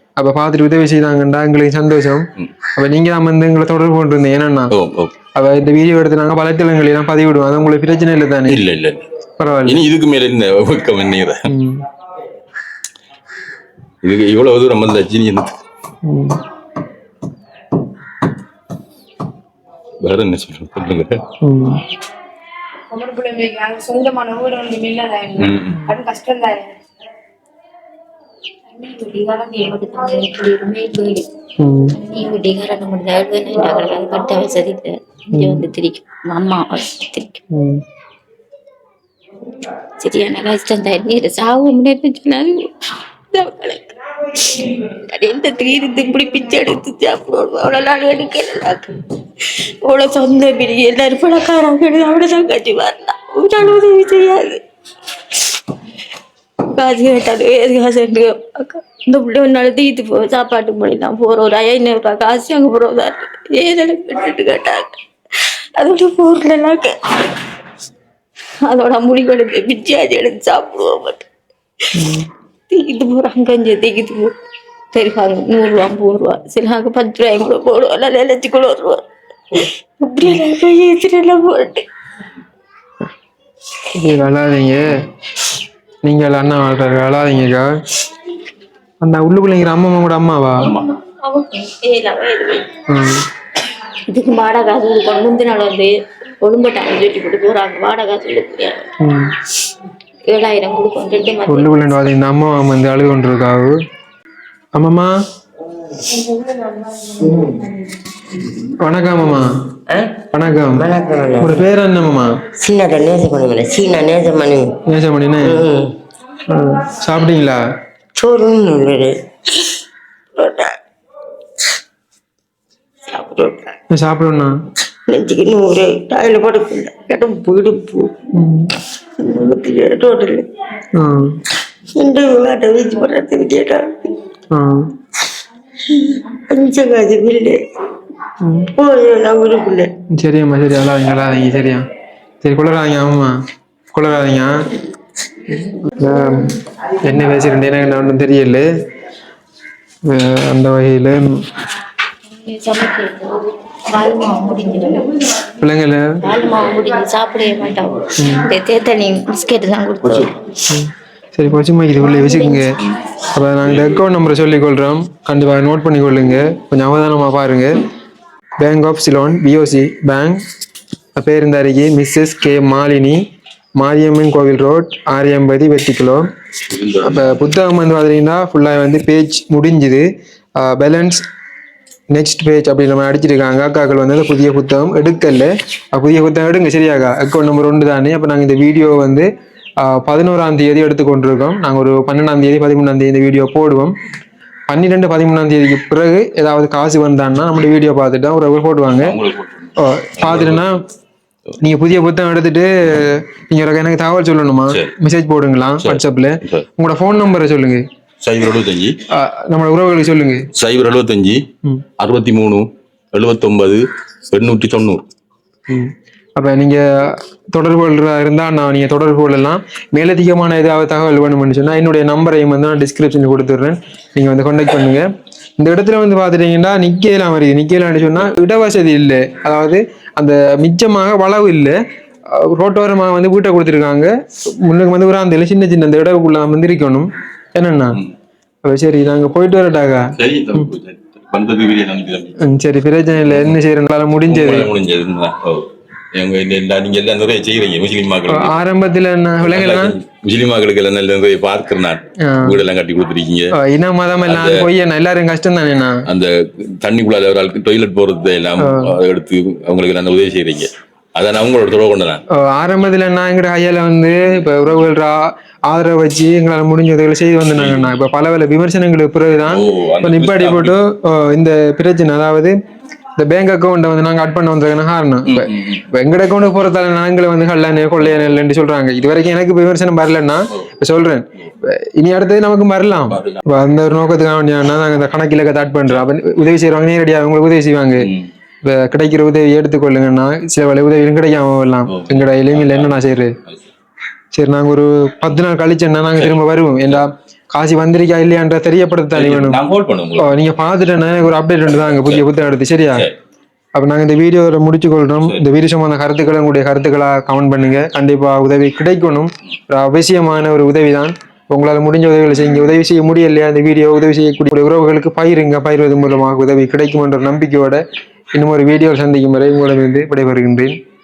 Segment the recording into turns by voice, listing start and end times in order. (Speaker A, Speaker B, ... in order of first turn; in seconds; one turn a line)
Speaker A: 0.2-2.2
Speaker A: 2.8-4.7
Speaker B: 4.7-5.1
Speaker A: 5.3-8.6
Speaker B: 8.4-9.0
Speaker A: 9.4-9.8
Speaker B: 9.6-11.4
Speaker A: 11.5-11.8
Speaker B: 14.0-15.6
Speaker A: 16.0-16.4
Speaker B: 20.0-21.2
Speaker A: 21.4-21.8
Speaker C: 22.9-26.7
Speaker B: 25.4-25.8
Speaker A: 25.7-26.0
Speaker D: 28.7-31.2
Speaker A: 31.6-32.0
Speaker D: 31.9-37.4
Speaker A: 35.3-35.7
Speaker A: 37.5-37.8
Speaker D: 40.0-54.6
Speaker D: 55.3-55.6
Speaker D: 56.7-67.4
Speaker D: 68.6-71.3
Speaker A: 71.9-72.3
Speaker D: 72.7-74.3
Speaker D: 74.9-81.8
Speaker A: 83.9-84.9
Speaker A: 86.0-87.7
Speaker A: 89.0-90.7
Speaker B: 90.6-90.9
Speaker D: 90.7-92.7
Speaker A: 92.9-93.2
Speaker D: 94.1-95.9
Speaker D: 96.4-98.9
Speaker A: 99.0-99.3
Speaker D: 100.3-102.0
Speaker A: 101.5-103.7
Speaker A: 104.7-105.1
Speaker E: 106.1-106.5
Speaker E: 107.0-107.6
Speaker A: 108.6-109.4
Speaker E: 109.9-110.2
Speaker A: 110.3-112.3
Speaker E: 110.7-111.6
Speaker E: 112.5-114.8
Speaker A: 114.8-115.7
Speaker E: 115.4-116.0
Speaker A: 116.5-117.6
Speaker E: 118.2-119.7
Speaker E: 120.4-120.8
Speaker E: 123.1-123.7
Speaker A: 123.9-124.5
Speaker E: 125.1-128.1
Speaker A: 128.3-128.7
Speaker E: 129.2-130.4
Speaker D: 129.3-130.3
Speaker A: 130.9-131.3
Speaker E: 132.0-133.9
Speaker D: 132.9-133.8
Speaker A: 134.5-134.9
Speaker E: 136.5-137.6
Speaker A: 138.4-138.7
Speaker E: 138.8-139.9
Speaker A: 140.1-141.8
Speaker A: 142.4-143.3
Speaker A: 143.9-144.5
Speaker A: 145.5-148.6
Speaker A: 150.0-151.4
Speaker D: 152.3-155.2
Speaker A: 155.6-156.0
Speaker D: 156.2-160.4
Speaker A: 158.2-158.5
Speaker A: 160.7-162.7
Speaker D: 162.0-162.6
Speaker A: 163.2-167.7
Speaker B: 163.6-164.1
Speaker A: 168.6-170.4
Speaker A: 171.2-173.2
Speaker A: 173.8-176.2
Speaker B: 176.7-177.6
Speaker A: 177.0-180.0
Speaker A: 180.6-181.2
Speaker A: 182.1-189.2
Speaker A: 189.8-193.9
Speaker A: 194.7-199.2
Speaker B: 198.9-200.7
Speaker A: 199.8-200.8
Speaker A: 201.6-207.8
Speaker B: 205.8-206.6
Speaker B: 208.2-208.9
Speaker A: 209.1-210.4
Speaker B: 210.5-211.4
Speaker B: 212.0-215.0
Speaker A: 215.7-225.0
Speaker A: 225.6-231.8
Speaker A: 232.3-238.0
Speaker A: 238.6-240.7
Speaker B: 240.2-242.3
Speaker A: 242.4-244.7
Speaker B: 243.3-243.6
Speaker B: 244.3-248.6
Speaker A: 248.3-250.0
Speaker B: 249.4-253.5
Speaker A: 252.2-252.6
Speaker A: 253.5-256.0
Speaker B: 254.2-254.7
Speaker B: 256.1-262.2
Speaker A: 258.6-258.9
Speaker A: 262.3-272.5
Speaker B: 267.5-267.9
Speaker B: 269.5-270.8
Speaker A: 273.2-288.1
Speaker B: 275.2-275.8
Speaker B: 283.1-283.4
Speaker B: 288.0-288.3
Speaker A: 288.6-293.3
Speaker B: 291.9-292.9
Speaker A: 294.3-299.6
Speaker B: 299.1-300.4
Speaker A: 300.2-303.1
Speaker B: 301.7-302.3
Speaker A: 303.7-317.8
Speaker A: 318.3-320.8